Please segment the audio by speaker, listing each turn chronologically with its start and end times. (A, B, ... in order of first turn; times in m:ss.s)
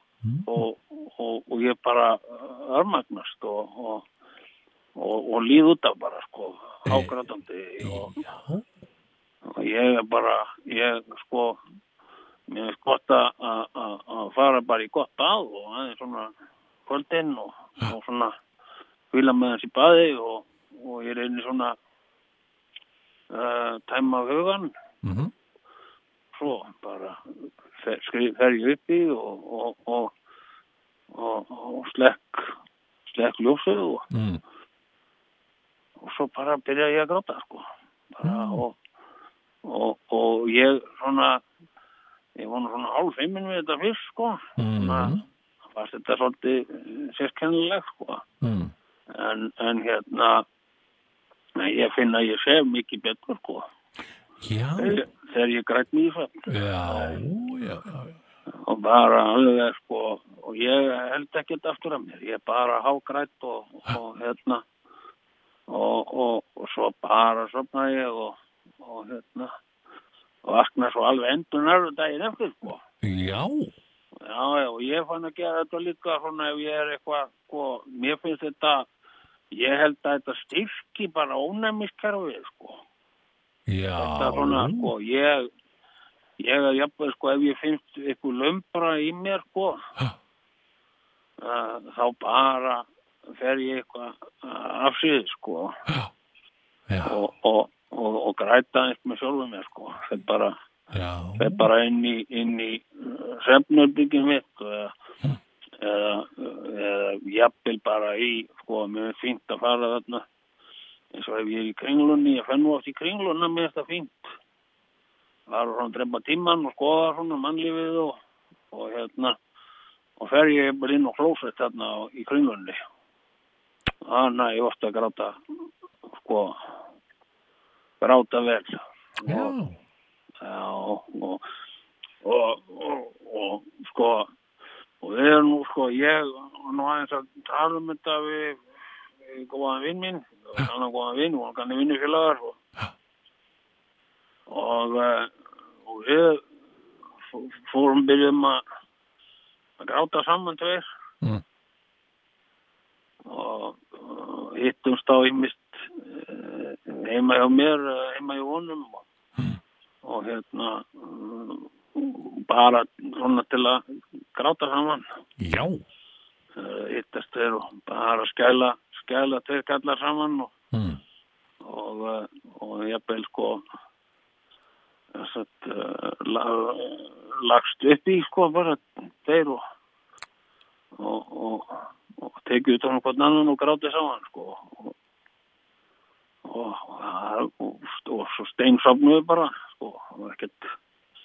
0:00.2-0:00.6 A
0:00.5-0:04.0 B
0:05.0-0:08.2 B
0:06.8-0:07.1 A
0:07.8-0:08.6 A
0:09.5-0:11.6 B
0:12.5-0:16.3 B
0:16.8-0:18.3 B
0:19.1-0:21.8 B
0:23.3-0:24.7 B
0:25.0-0:25.3 A
0:26.3-0:27.2 B
0:27.8-0:30.1 B
0:31.1-0:32.5 B
0:33.1-0:34.0 B
0:34.1-0:34.4 A
0:36.0-0:38.8 B
0:38.2-0:38.6 A
0:39.6-0:41.4 B
0:42.4-0:45.2 B
0:44.6-0:45.2 A
0:45.7-0:48.2 B
0:48.4-0:48.7 A
0:49.1-0:50.4 B
0:51.6-0:53.6 B
0:54.4-0:55.0 A
0:54.8-0:57.2 B
0:56.5-0:58.2 A
0:58.5-1:04.6 B
1:05.7-1:09.5 B
1:10.4-1:12.8 B
1:13.0-1:13.7 A
1:14.2-1:18.8 B
1:19.5-1:22.8 B
1:23.7-1:24.9 A
1:24.0-1:25.5 B
1:26.4-1:29.8 B
1:31.4-1:32.8 B
1:33.4-1:35.8 B
1:36.9-1:37.2 A
1:37.0-1:40.5 B
1:40.9-1:41.6 A
1:41.4-1:44.9 B
1:45.8-1:50.2 B
1:51.1-1:54.2 B
1:55.5-1:58.2 B
1:58.7-1:59.4 B
2:00.2-2:02.8 B
2:04.0-2:05.4 B
2:06.2-2:06.6 B
2:08.0-2:09.5 B
2:09.2-2:09.8 A
2:10.4-2:11.4 B
2:12.2-2:14.3 B
2:15.0-2:18.6 B
2:19.2-2:22.6 B
2:24.5-2:25.3 B
2:25.8-2:26.4 B
2:27.3-2:28.6 B
2:29.8-2:30.8 B
2:33.2-2:39.0 B
2:40.0-2:43.8 B
2:44.3-2:45.0 B
2:45.4-2:45.8 A
2:46.6-2:50.5 B
2:50.7-2:51.0 A
2:51.6-2:53.6 B
2:55.1-2:59.6 B
3:01.0-3:04.9 B
3:06.4-3:10.7 B